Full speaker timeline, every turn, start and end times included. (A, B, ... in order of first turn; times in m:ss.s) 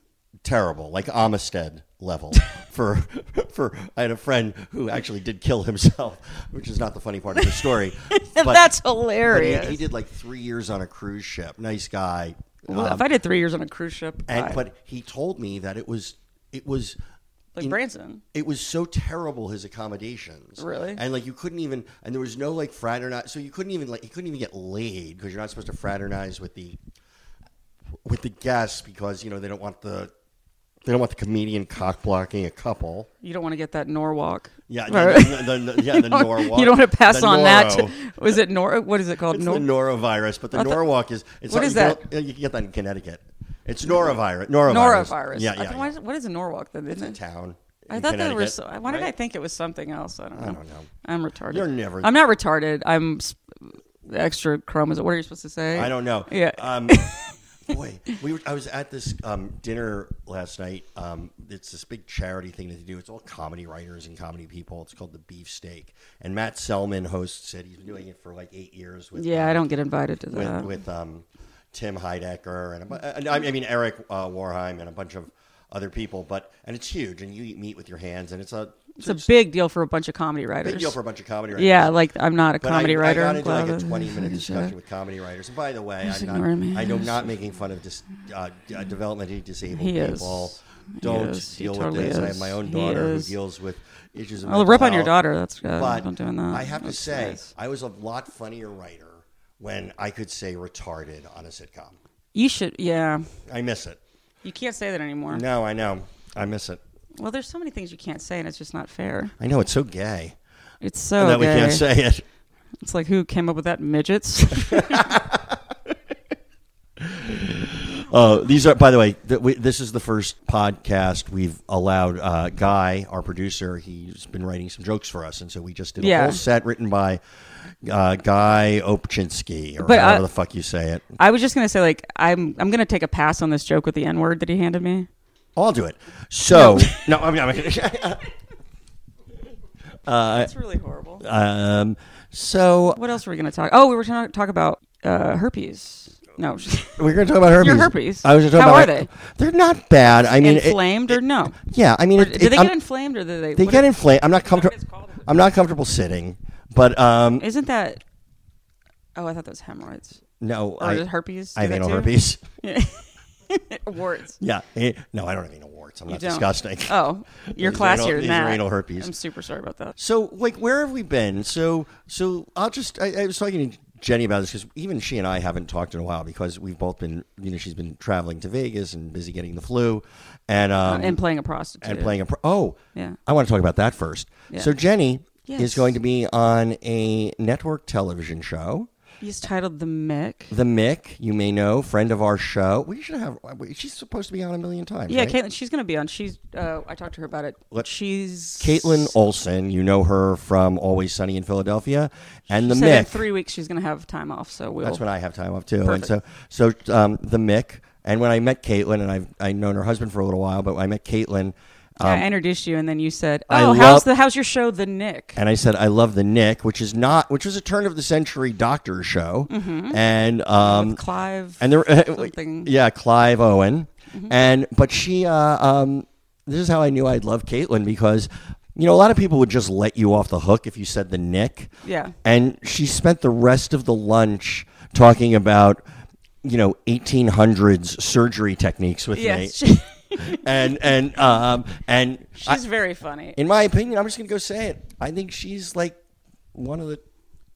0:00.4-0:08.7 A
0:07.4-0:09.8 B
0:09.3-0:13.1 A
0:12.7-0:14.6 B
0:14.3-0:17.0 A
0:17.6-0:18.2 B
0:18.3-0:26.8 A
0:20.6-0:21.0 B
0:28.0-0:30.1 A
0:30.8-0:33.1 A
0:33.2-0:39.7 B
0:34.7-0:38.0 A
0:39.3-0:45.9 A
0:40.5-0:40.8 B
0:41.5-0:42.0 B
0:43.9-0:47.2 B
0:46.9-0:49.1 A
0:47.9-0:53.4 B
0:50.4-0:50.9 A
0:51.5-0:52.2 A
0:54.0-0:57.3 B
0:55.7-0:57.1 A
0:57.7-1:09.6 A
1:09.2-1:10.7 B
1:10.3-1:19.3 A
1:19.0-1:21.0 B
1:20.6-1:21.9 A
1:21.5-1:24.7 B
1:22.6-1:35.1 A
1:26.0-1:27.3 B
1:29.7-1:33.4 B
1:34.4-1:37.5 B
1:35.7-1:42.0 A
1:42.3-1:43.2 B
1:43.5-1:44.0 A
1:44.4-1:45.4 B
1:45.3-1:46.8 A
1:47.2-1:49.4 B
1:49.4-1:50.4 A
1:50.8-1:51.8 B
1:51.2-1:52.2 A
1:52.8-1:55.1 B
1:54.7-1:55.6 A
1:57.0-2:07.2 A
2:06.0-2:06.4 B
2:07.8-2:11.2 A
2:09.8-2:10.2 B
2:11.2-2:15.1 B
2:15.6-2:18.2 A
2:16.5-2:17.1 B
2:20.1-2:20.5 A
2:20.3-2:21.2 B
2:21.2-2:23.0 A
2:22.9-2:29.1 B
2:27.0-2:32.8 A
2:30.4-2:31.6 B
2:32.2-2:33.9 B
2:33.6-2:37.5 A
2:34.5-2:35.2 B
2:37.4-2:38.0 B
2:39.2-2:40.2 B
2:40.4-2:42.4 A
2:40.8-2:44.4 B
2:44.4-2:49.1 A
2:46.1-2:50.0 B
2:50.0-3:01.2 A
3:00.8-3:02.2 B
3:01.8-3:08.9 A
3:05.5-3:06.0 B
3:09.2-3:10.5 B
3:10.5-3:15.4 A
3:15.1-3:19.2 B
3:18.6-3:23.3 A
3:22.6-3:25.0 B
3:24.8-3:32.3 A
3:25.8-3:26.1 B
3:32.0-3:35.4 B
3:33.5-3:34.1 A
3:35.4-3:41.0 A
3:39.5-3:40.0 B
3:40.6-3:42.7 B
3:41.6-3:51.7 A
3:51.8-3:52.2 B
3:52.2-3:55.8 A
3:56.4-3:59.6 A
3:59.1-4:00.7 B
4:00.2-4:02.6 A
4:02.4-4:03.4 B
4:03.4-4:06.0 A
4:06.5-4:07.0 A